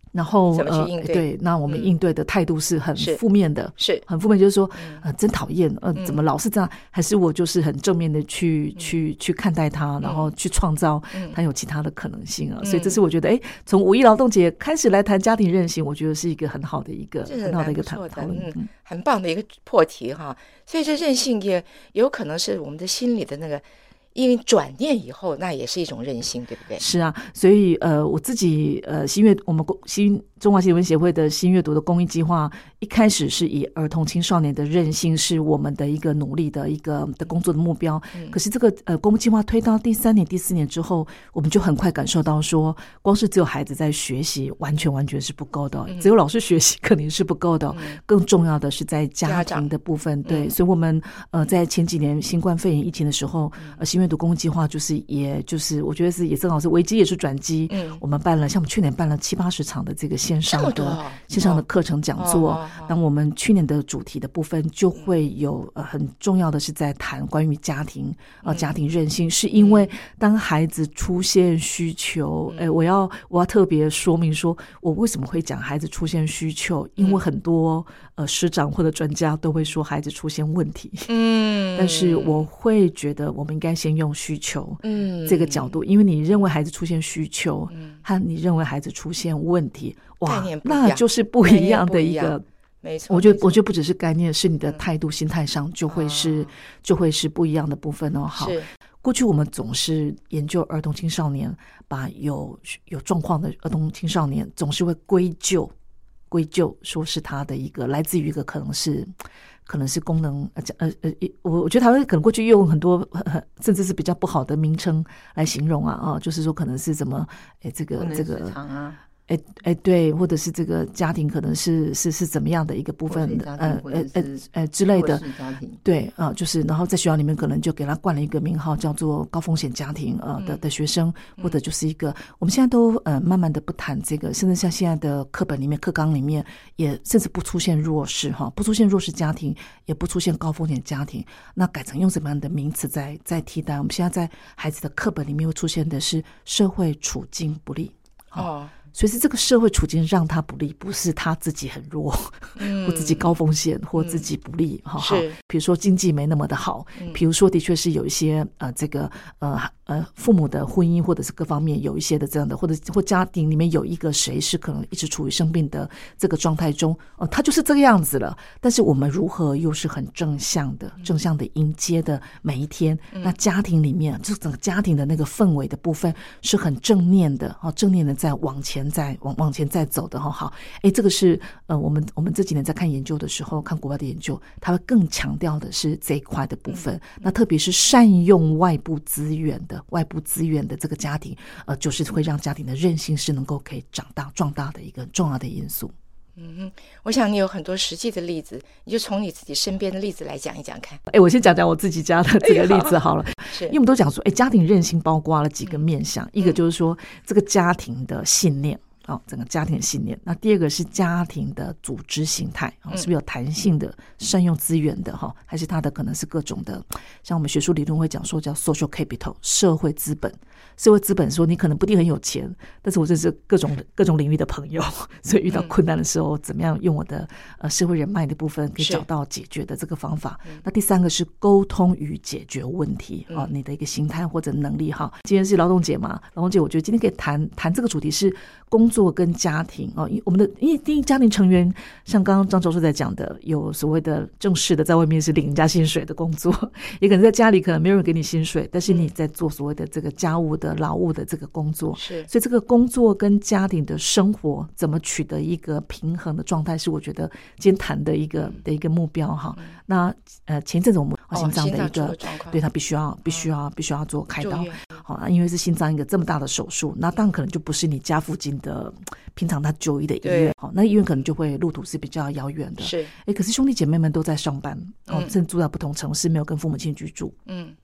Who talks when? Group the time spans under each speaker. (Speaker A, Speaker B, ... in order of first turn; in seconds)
Speaker A: 0.1-18.7, 26.8-81.1, 81.7-92.4, 93.1-105.7, 106.3-109.1, 109.7-118.6, 119.3-195.9, 201.1-277.4
Speaker B: 0.5-1.9, 3.8-4.0, 6.0-6.2, 10.0-10.3, 11.1-11.4, 12.6-13.0, 17.2-26.8, 47.7-48.0, 49.2-49.7, 50.2-50.5, 57.7-58.0, 60.5-61.6, 62.2-62.9, 68.4-68.7, 69.5-69.9, 72.5-72.8, 77.0-77.2, 81.1-82.5, 84.8-85.7, 87.7-88.0, 90.2-93.6, 95.9-96.5, 98.3-98.7, 148.3-148.8, 152.6-153.3, 153.9-154.2, 155.0-155.4, 186.7-187.2, 196.4-201.0, 202.4-203.8, 225.5-225.7, 228.8-229.1, 251.9-252.3, 261.3-262.6, 264.4-265.0, 270.2-270.5, 272.8-273.1, 275.1-275.3, 277.4-277.8
Speaker C: 118.0-119.0, 123.1-125.8